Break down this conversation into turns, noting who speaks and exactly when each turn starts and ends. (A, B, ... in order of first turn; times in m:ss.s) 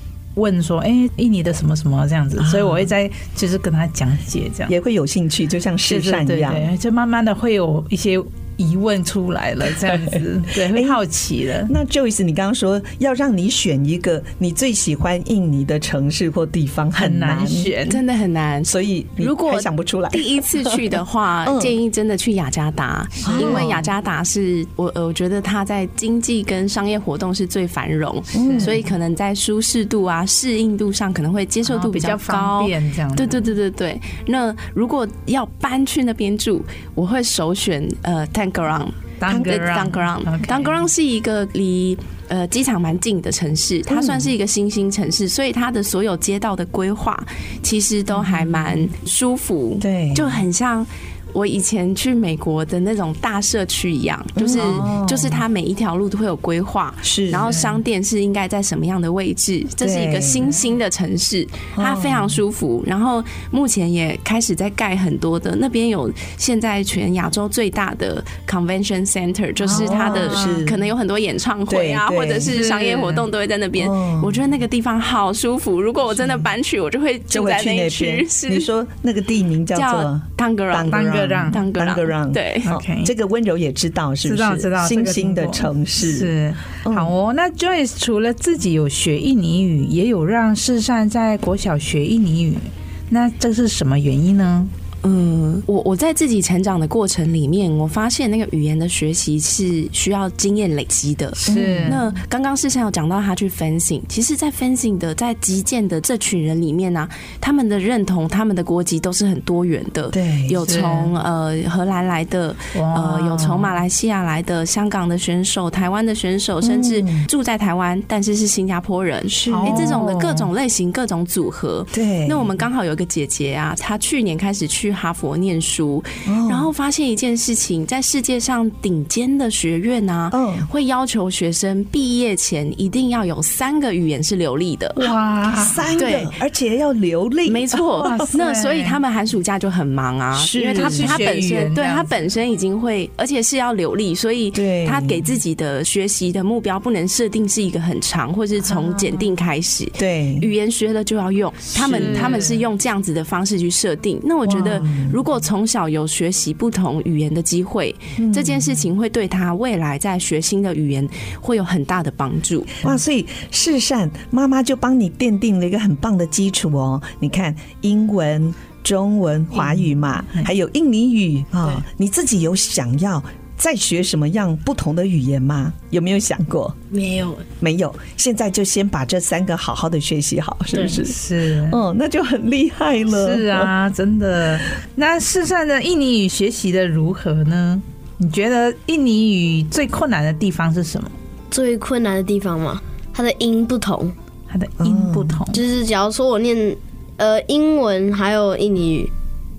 0:00.4-0:04.7 A
0:02.4-0:02.9 B
0:04.7-0:06.7 B
0:05.8-0:11.7 A
0:09.8-0:11.0 B
0:11.6-0:17.7 B
0:16.9-0:18.0 A
0:17.9-1:18.7 C
0:18.6-0:20.9 B
0:21.4-0:21.7 B
0:23.2-0:23.8 B
0:23.2-0:23.8 A
0:28.3-0:28.8 B
0:28.4-0:28.7 A
0:31.6-0:33.4 A
0:39.2-0:40.8 A
0:43.9-0:44.3 B
0:48.1-0:48.7 A
0:49.8-0:50.4 B
0:54.4-0:55.4 B
0:54.6-0:54.9 A
0:57.0-0:57.5 B
0:59.8-1:00.5 B
1:01.7-1:02.4 B
1:09.6-1:10.8 B
1:09.7-1:10.6 A
1:11.7-1:12.6 B
1:12.5-1:13.2 A
1:13.8-1:14.4 B
1:17.3-1:27.1 B
1:19.7-1:22.7 C
1:20.9-1:21.6 A
1:22.6-1:23.1 A
1:24.2-1:34.7 A
1:35.0-2:15.0 C
1:41.4-1:42.0 A
1:41.5-1:42.1 B
1:50.1-1:50.6 B
1:50.6-1:51.1 A
1:52.7-1:53.7 A
1:56.6-1:57.2 B
1:59.3-2:00.1 B
1:59.5-2:00.4 A
2:01.9-2:02.6 B
2:06.2-2:06.7 B
2:10.3-2:10.7 B
2:15.0-2:15.9 A
2:15.5-2:18.2 B
2:16.0-2:16.3 C
2:17.4-2:42.8 C
2:18.0-2:19.0 A
2:20.3-2:21.3 B
2:20.8-2:22.1 A
2:24.5-2:25.3 B
2:28.7-2:29.2 A
2:30.0-2:30.5 B
2:31.7-2:32.6 A
2:31.9-2:32.2 B
2:34.4-2:35.2 B
2:38.2-2:38.8 B
2:42.8-2:56.8 B
2:49.5-2:50.5 A
2:56.9-2:57.4 D
2:57.6-3:03.7 B
3:00.9-3:01.8 A
3:03.1-3:11.1 A
3:11.5-3:14.1 D
3:14.5-3:15.6 A
3:14.8-3:15.4 B
3:15.5-3:19.1 D